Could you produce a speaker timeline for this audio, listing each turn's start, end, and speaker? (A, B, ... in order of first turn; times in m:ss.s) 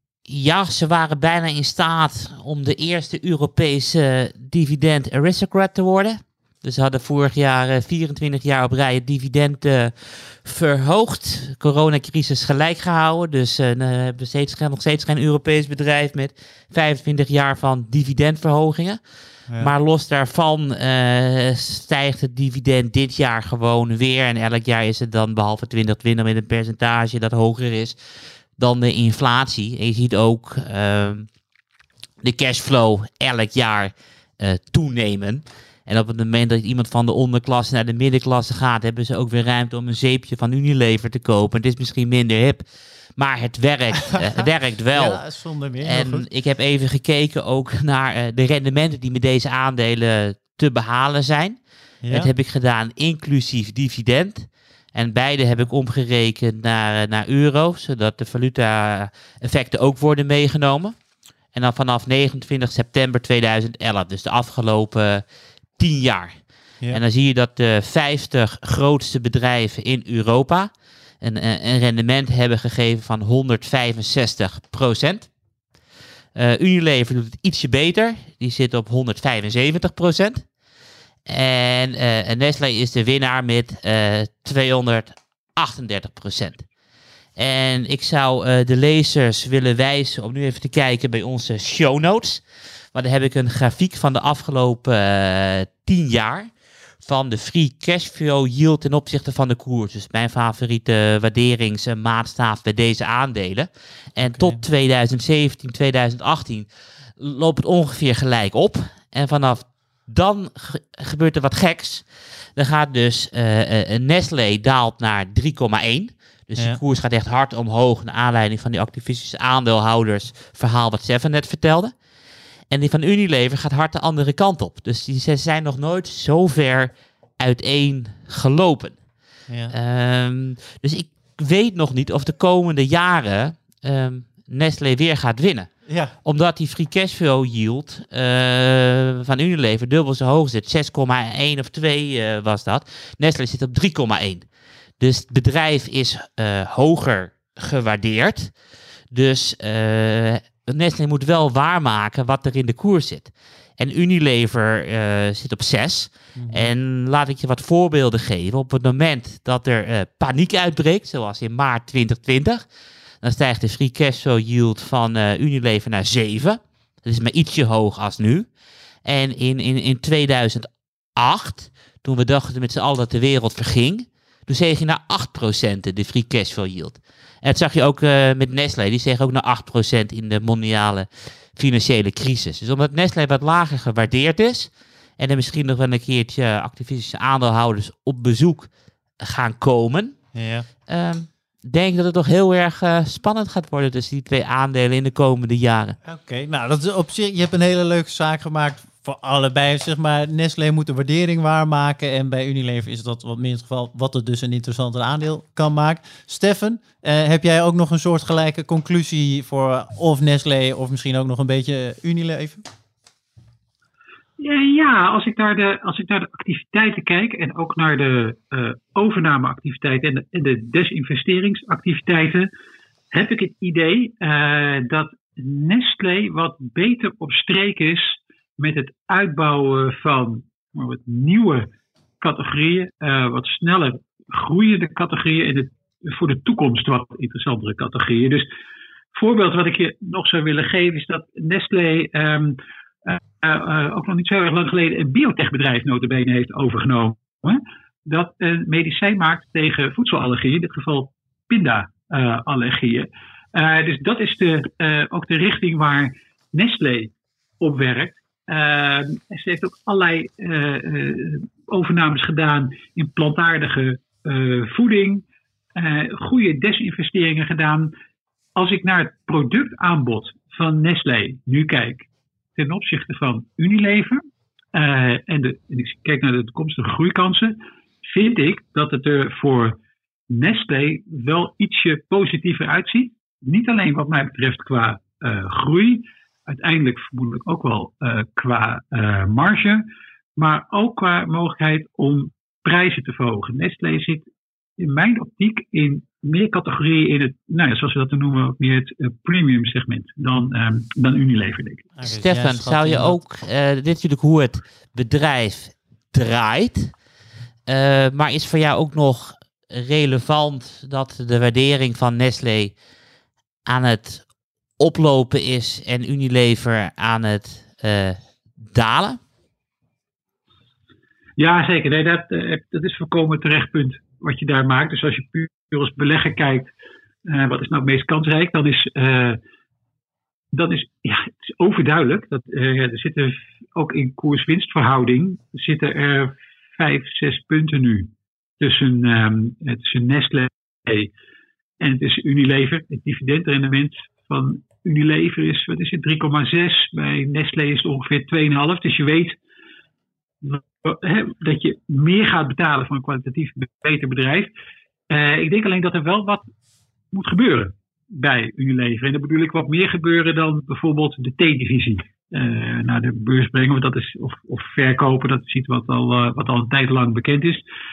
0:00.3-0:19.0 A
0:19.6-0:28.0 A
0:28.6-0:31.3 A
0:32.2-0:42.6 A
0:43.2-0:45.2 A
0:44.4-0:46.3 B
0:45.8-0:51.6 A
0:52.0-0:52.3 B
0:52.1-1:01.0 A
1:01.5-1:05.2 A
1:05.8-1:06.4 A
1:06.9-1:15.3 A
1:16.4-1:20.4 A
1:21.3-1:26.7 A
1:27.4-1:32.4 A
1:32.9-1:36.5 A
1:37.0-1:46.7 A
1:44.2-1:44.6 B
1:47.2-1:52.0 A
1:52.6-2:01.9 A
2:02.7-2:09.0 A
2:09.5-2:09.7 B
2:09.7-2:15.7 A
2:15.9-2:16.1 B
2:16.2-2:24.4 A
2:25.0-2:28.6 A
2:29.1-2:42.6 A
2:36.4-2:36.7 B
2:43.2-2:48.5 A
2:49.0-3:10.2 A
3:10.4-3:10.7 B
3:10.9-3:16.0 A
3:16.0-3:32.6 B
3:34.4-3:42.5 C
3:43.1-3:58.5 C
3:59.1-4:25.2 C
4:25.7-4:27.9 C
4:28.6-4:34.2 C
4:34.7-4:39.8 C
4:40.3-4:49.8 C
4:50.4-4:54.3 C
4:54.8-5:01.9 C
5:02.0-5:03.2 B
5:02.0-5:06.9 A
5:07.7-5:12.7 A
5:13.7-5:14.3 A
5:14.8-5:18.2 A
5:18.7-5:19.2 A
5:21.4-5:26.7 C
5:27.3-5:29.4 C
5:30.5-5:41.1 C
5:41.8-5:49.4 C
5:50.4-5:54.5 C
5:55.1-5:56.5 C
5:57.1-6:07.6 C